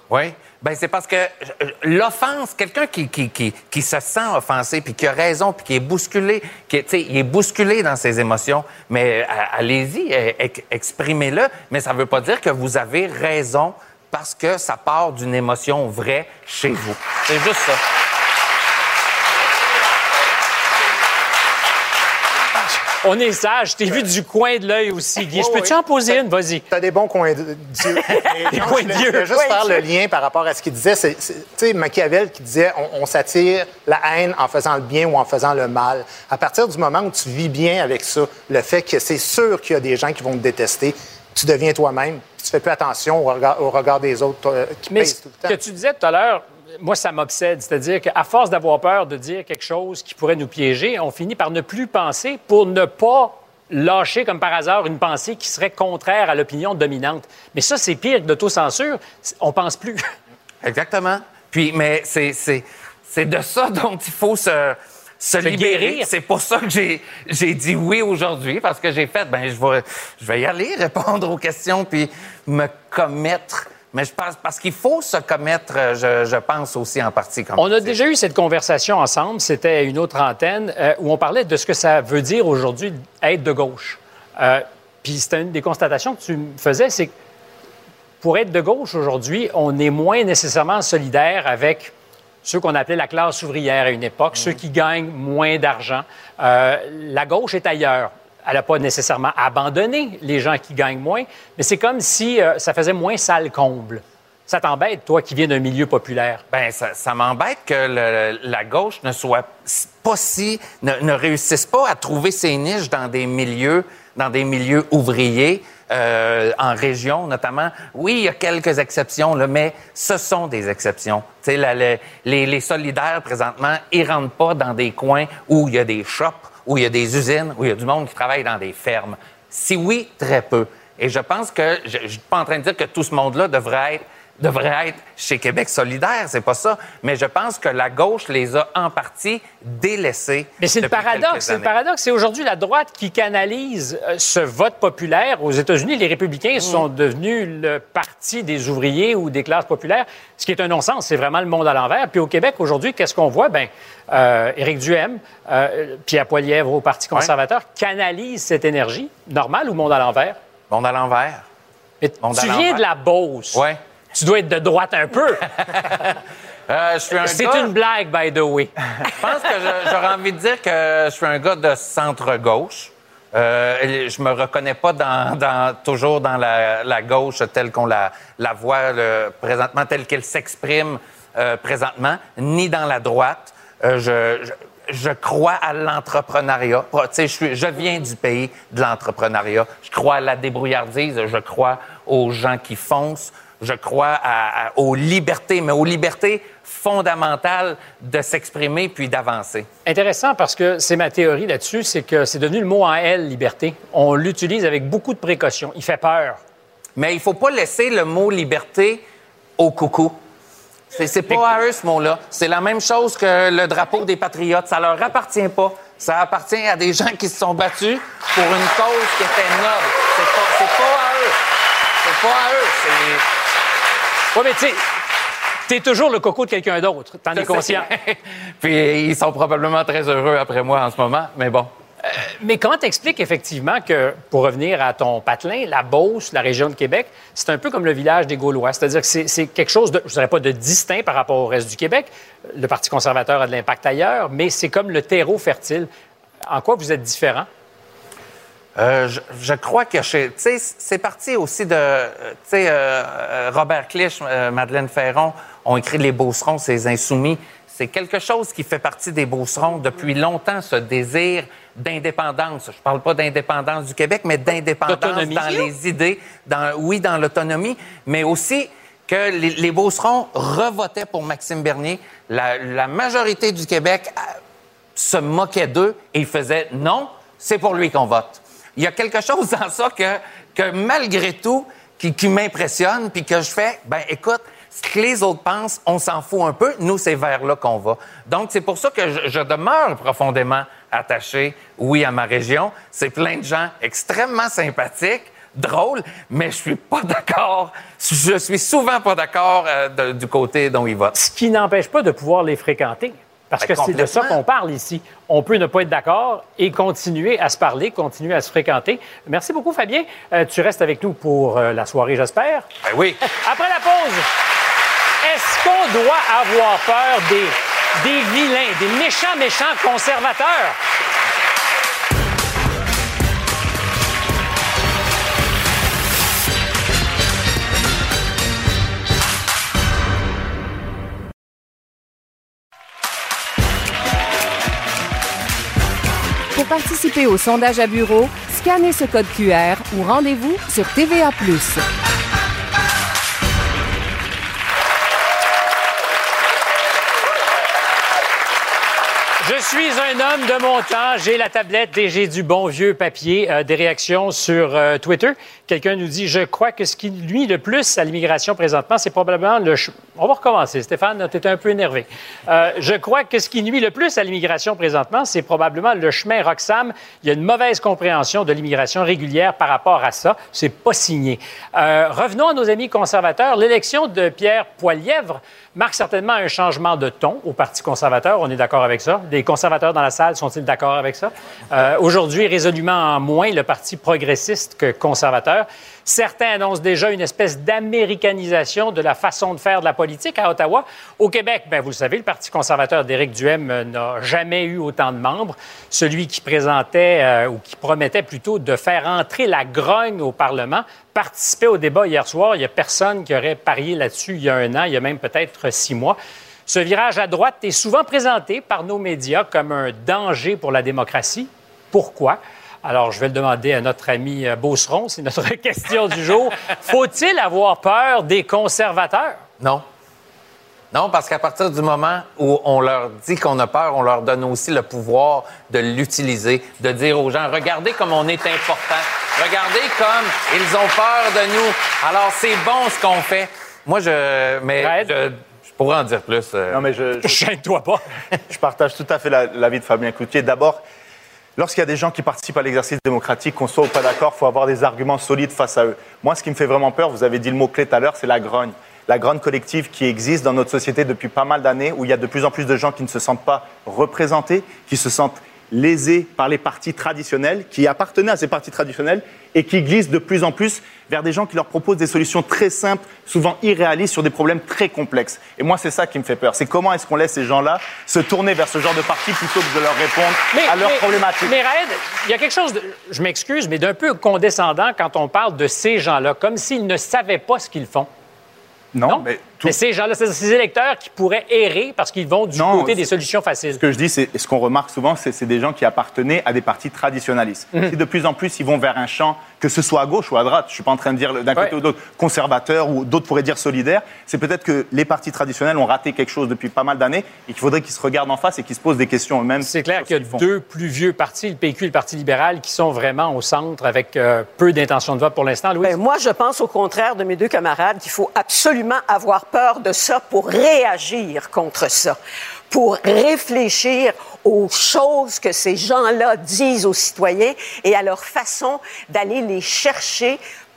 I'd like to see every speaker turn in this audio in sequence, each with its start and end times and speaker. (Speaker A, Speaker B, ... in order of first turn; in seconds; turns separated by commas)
Speaker A: 0.1-17.8, Speaker B: 23.0-26.6, Speaker C: 25.3-25.8, Speaker C: 26.7-45.6, Speaker B: 28.5-29.4, Speaker D: 29.3-29.7, Speaker B: 44.9-60.0, Speaker A: 60.6-77.9, Speaker B: 65.4-66.1, Speaker B: 77.6-87.1, Speaker B: 88.2-91.9, Speaker B: 92.4-106.4, Speaker A: 106.5-141.7, Speaker B: 140.6-160.4, Speaker A: 160.7-161.4, Speaker B: 162.0-163.6, Speaker A: 162.2-162.8, Speaker B: 164.1-165.4, Speaker A: 165.4-166.1, Speaker A: 166.7-167.7, Speaker B: 167.2-168.7, Speaker A: 169.1-199.7, Speaker B: 199.8-206.4, Speaker A: 206.9-209.0, Speaker A: 209.6-210.2, Speaker A: 210.9-221.4, Speaker A: 222.0-223.2, Speaker B: 224.3-224.8, Speaker B: 225.7-227.9, Speaker A: 227.3-231.7, Speaker B: 232.0-245.9, Speaker B: 246.5-247.5, Speaker A: 248.8-274.4, Speaker B: 264.9-265.7, Speaker A: 274.9-301.1, Speaker B: 301.1-312.7, Speaker A: 303.6-304.4, Speaker A: 312.8-313.2, Speaker B: 313.3-314.3, Speaker B: 315.2-320.8, Speaker E: 336.5-341.8, Speaker B: 349.4-419.4, Speaker A: 419.6-419.8, Speaker A: 420.9-436.8, Speaker B: 434.8-435.1, Speaker F: 436.7-437.4, Speaker B: 437.2-438.0, Speaker F: 438.5-440.8, Speaker F: 441.6-471.5, Speaker B: 470.5-478.1, Speaker F: 478.9-479.7, Speaker B: 479.1-483.8, Speaker F: 482.5-483.0, Speaker F: 483.8-500.4, Speaker B: 499.6-505.9, Speaker D: 505.8-512.2, Speaker D: 512.7-520.4